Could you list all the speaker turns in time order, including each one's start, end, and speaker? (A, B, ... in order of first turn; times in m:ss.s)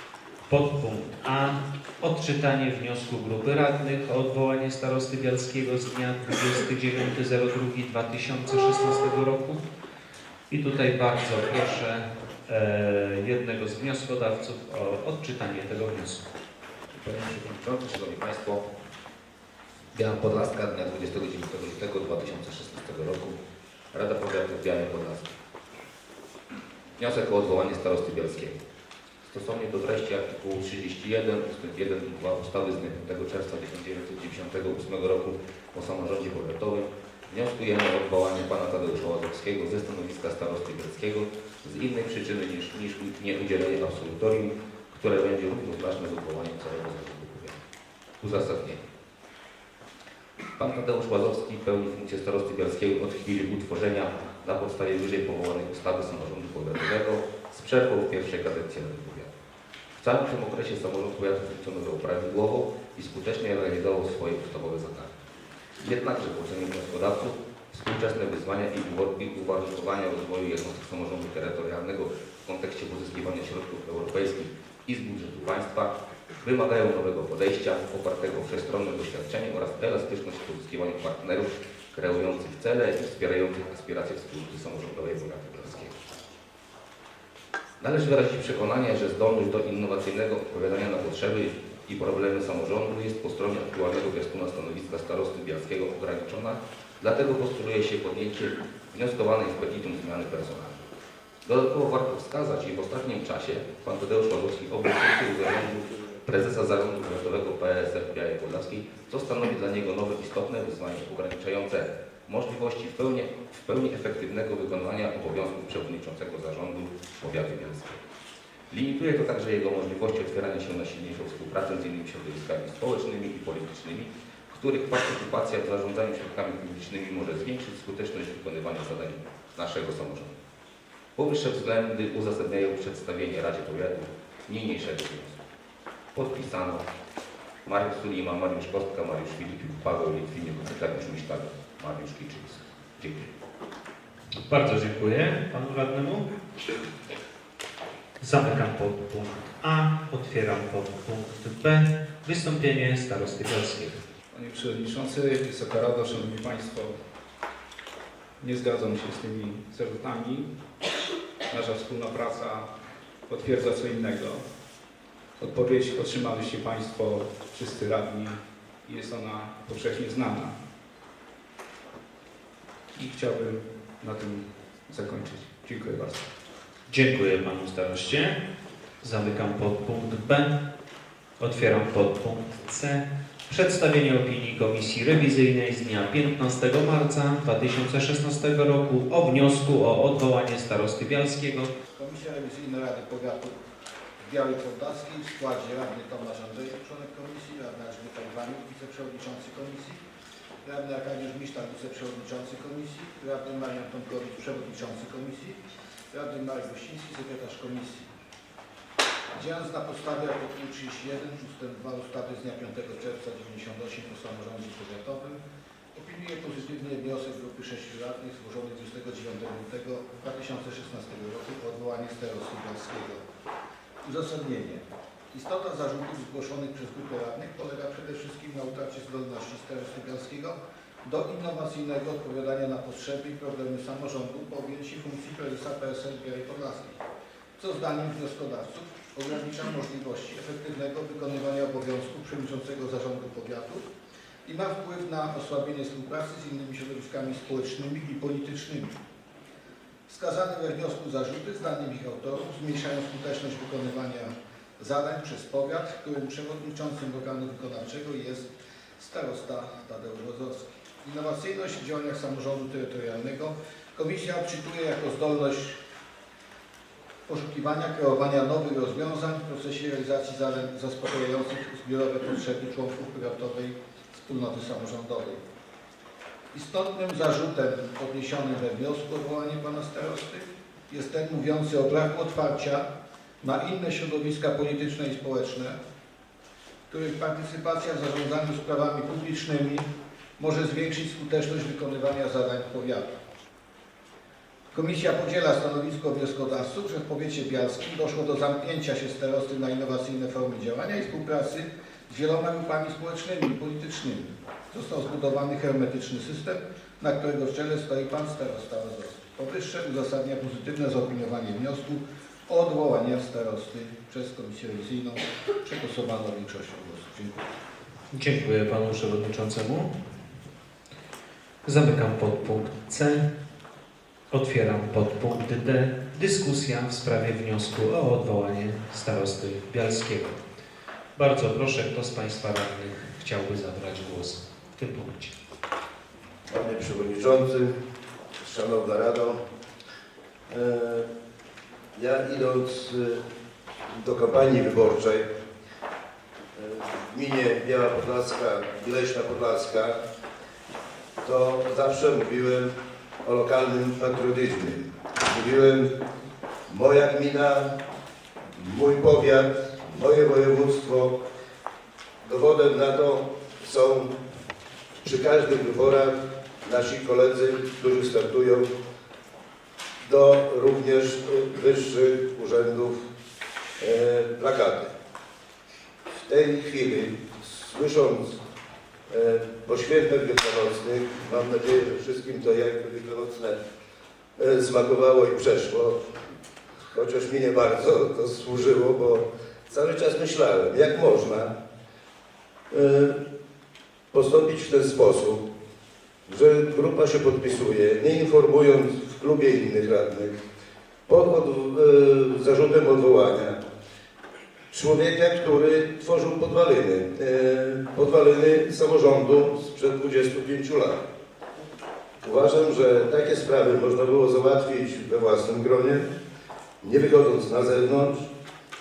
0:00.5-0:09.6 A
0:10.5-0:16.2 A
0:17.0-0:18.7 B
0:19.9-0:23.4 B
0:23.9-0:25.3 B
0:27.0-0:28.6 B
0:29.3-0:47.6 B
0:48.2-0:48.8 B
0:50.6-0:59.3 B
1:00.0-1:05.1 B
1:05.8-1:25.9 B
1:27.8-1:40.8 B
1:41.4-1:58.0 B
1:58.7-2:10.4 B
2:11.2-2:15.4 B
2:16.2-2:16.8 B
2:17.7-2:23.3 B
2:24.5-2:26.3 A
2:28.2-2:34.0 A
2:34.3-2:36.9 C
2:38.4-2:40.5 C
2:41.5-2:42.7 C
2:43.3-2:44.4 C
2:45.4-2:50.6 C
2:53.0-2:56.3 C
2:56.9-2:58.4 A
2:59.0-3:00.5 A
3:01.4-3:11.7 A
3:12.0-3:13.5 D
3:12.0-3:13.5 E
3:14.3-3:20.0 E
3:14.4-3:19.7 D
3:20.6-3:25.6 E
3:20.8-3:25.2 D
3:26.1-3:28.1 E
3:26.3-3:28.0 D
3:29.4-3:35.4 E
3:29.4-3:30.0 D
3:30.5-3:32.0 D
3:32.6-3:34.9 D
3:36.0-3:43.2 E
3:36.2-3:37.9 D
3:38.6-3:39.2 D
3:41.6-3:42.8 D
3:44.0-3:56.9 E
3:49.6-3:50.3 D
3:55.3-3:56.3 D
3:57.6-4:03.8 E
3:57.7-3:58.3 D
3:59.0-3:59.2 D
4:00.5-4:03.8 D
4:04.4-4:08.9 E
4:05.2-4:06.0 D
4:06.5-4:08.3 D
4:10.1-4:18.4 E
4:10.3-4:14.1 D
4:15.4-4:18.2 D
4:19.0-4:25.8 E
4:19.0-4:20.0 D
4:20.5-4:22.0 D
4:24.2-4:25.8 D
4:27.3-4:33.7 E
4:27.3-4:35.4 D
4:34.3-4:35.3 E
4:36.5-4:42.8 E
4:36.7-4:38.1 D
4:39.0-4:40.4 D
4:41.3-4:42.8 D
4:43.4-4:45.8 E
4:43.7-4:45.6 D
4:46.9-4:49.8 E
4:47.0-4:48.3 D
4:49.0-4:49.8 D
4:50.4-4:53.1 E
4:50.4-4:53.0 D
4:54.7-5:01.6 E
4:54.7-5:01.6 D
5:02.1-5:09.5 E
5:02.4-5:03.8 D
5:04.7-5:06.6 D
5:07.2-5:12.0 D
5:12.5-5:13.7 E
5:12.5-5:17.4 D
5:18.1-5:19.9 A
5:21.6-5:23.2 A
5:24.3-5:30.4 A
5:31.2-5:35.3 A
5:36.5-5:37.7 D
5:38.4-5:39.4 D
5:40.5-5:41.1 D
5:42.0-5:43.2 D
5:43.9-5:45.3 D
5:46.6-5:50.0 D
5:51.2-5:52.7 D
5:53.2-5:55.9 D
5:56.7-5:57.7 D
5:58.6-6:01.2 D
6:02.2-6:04.2 D
6:05.0-6:08.7 D
6:10.0-6:13.0 D
6:13.8-6:14.9 D
6:16.1-6:18.4 D
6:19.1-6:23.6 D
6:24.4-6:26.0 D
6:26.9-6:31.5 D
6:32.7-6:33.2 D
6:34.1-6:35.5 D
6:36.3-6:40.3 D
6:41.1-6:43.6 D
6:44.7-6:51.0 D
6:52.2-6:56.0 D
6:56.8-6:58.3 D